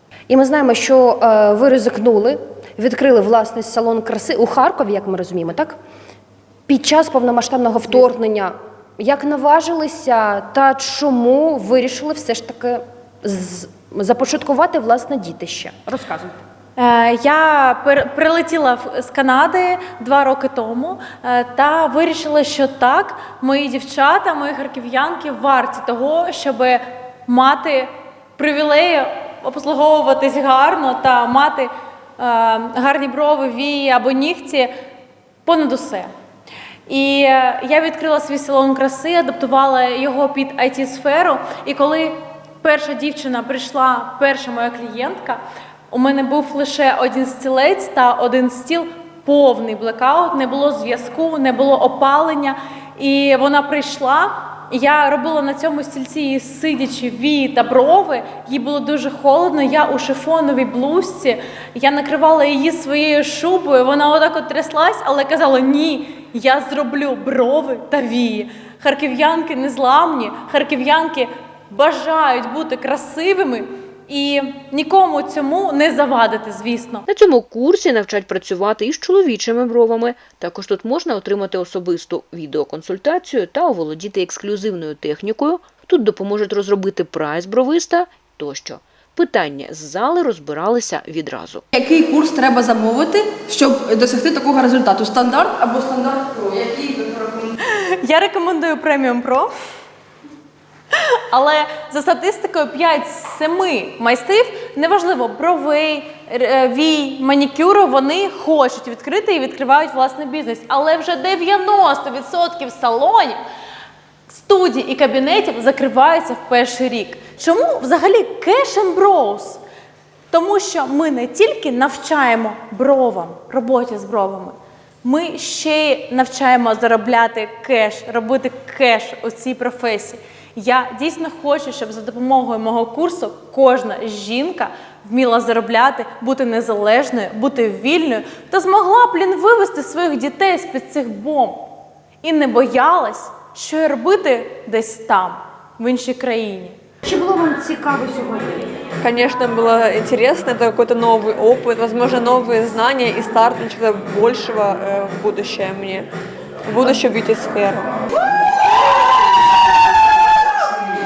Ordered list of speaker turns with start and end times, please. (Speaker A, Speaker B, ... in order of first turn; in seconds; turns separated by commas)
Speaker A: 0.3-5.8, Speaker A: 6.7-16.4, Speaker B: 16.8-34.7, Speaker B: 35.5-36.1, Speaker B: 36.9-45.4, Speaker B: 45.9-77.0, Speaker C: 77.1-91.7, Speaker D: 91.7-97.5, Speaker B: 98.0-99.5, Speaker B: 101.3-113.4, Speaker B: 114.3-119.6, Speaker B: 120.3-141.7, Speaker B: 142.2-146.8, Speaker A: 147.1-148.6, Speaker E: 149.0-156.1, Speaker E: 156.7-157.9